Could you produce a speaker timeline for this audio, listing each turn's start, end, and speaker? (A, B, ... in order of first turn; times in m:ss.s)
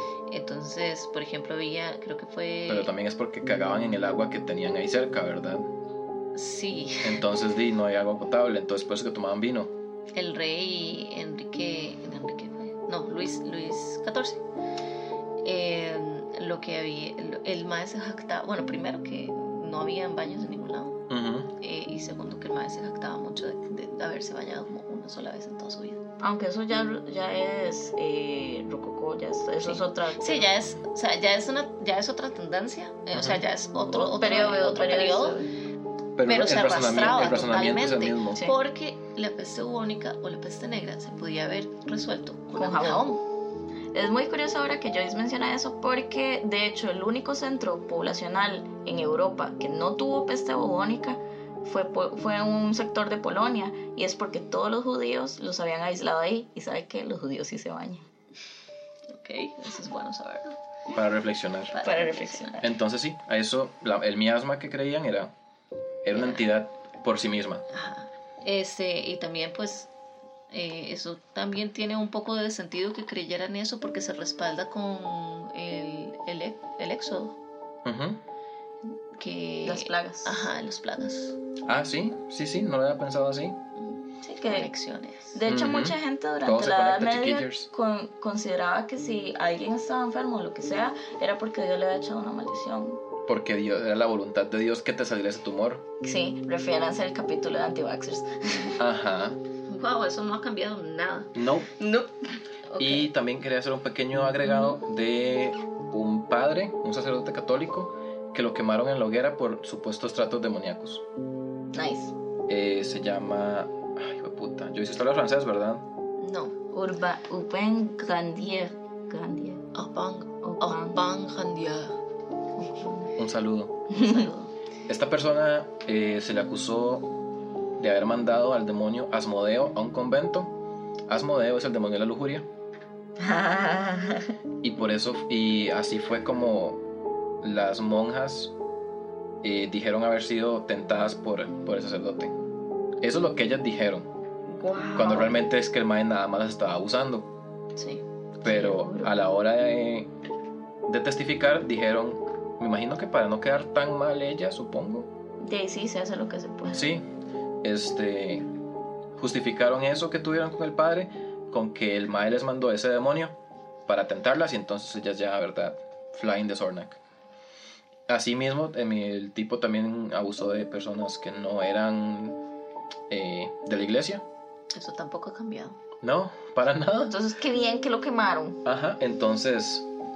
0:00.3-0:02.9 A
0:02.7-0:05.7 B
0:06.4-0:07.2 A
0:07.0-0:09.7 B
0:10.1-0:14.4 A
0:15.4-0:21.0 A
0:21.1-0:21.5 B
0:21.6-0:26.0 A
0:26.2-0:30.6 C
0:29.6-0:35.4 A
0:33.1-0:33.4 B
0:33.9-0:35.6 C
0:36.2-0:38.4 B
0:36.2-0:43.2 A
0:42.6-0:43.1 C
0:43.9-0:58.1 C
0:59.1-1:00.6 A
1:00.9-1:01.8 B
1:01.7-1:02.5 A
1:01.8-1:02.7 C
1:02.6-1:05.3 B
1:06.0-1:07.6 B
1:06.1-1:06.5 A
1:07.7-1:09.9 A
1:10.5-1:17.4 A
1:17.8-1:18.2 B
1:19.2-1:21.4 A
1:19.6-1:20.5 C
1:21.7-1:23.6 B
1:23.8-1:25.4 A
1:24.2-1:24.7 C
1:25.3-1:33.0 C
1:25.5-1:27.7 B
1:33.3-1:35.8 B
1:36.0-1:38.8 C
1:38.8-1:39.4 B
1:39.7-1:41.4 A
1:41.4-1:41.7 B
1:41.8-1:42.1 C
1:42.7-1:43.1 A
1:42.8-1:51.0 B
1:51.7-1:52.2 C
1:52.5-1:55.9 B
1:56.2-1:56.6 A
1:56.7-1:59.7 C
1:59.7-2:02.0 A
2:00.4-2:01.0 C
2:02.6-2:03.1 C
2:03.2-2:03.9 B
2:03.9-2:04.3 C
2:03.9-2:04.5 A
2:04.9-2:07.1 B
2:07.8-2:10.5 B
2:11.1-2:12.5 B
2:13.2-2:14.4 C
2:14.6-2:16.8 B
2:17.4-2:18.5 B
2:19.4-2:22.3 B
2:23.0-2:24.1 B
2:24.5-2:25.4 C
2:24.9-2:27.3 B
2:27.8-2:28.0 A
2:28.4-2:30.1 B
2:28.4-2:29.1 C
2:30.9-2:35.1 B
2:35.4-2:36.9 C
2:36.7-2:37.0 B
2:37.6-2:38.5 B
2:39.2-2:43.3 B
2:43.9-2:47.0 B
2:48.1-2:52.4 B
2:53.1-2:54.2 B
2:54.7-2:55.8 A
2:56.0-2:57.2 B
2:57.1-2:58.6 C
2:58.6-2:59.9 B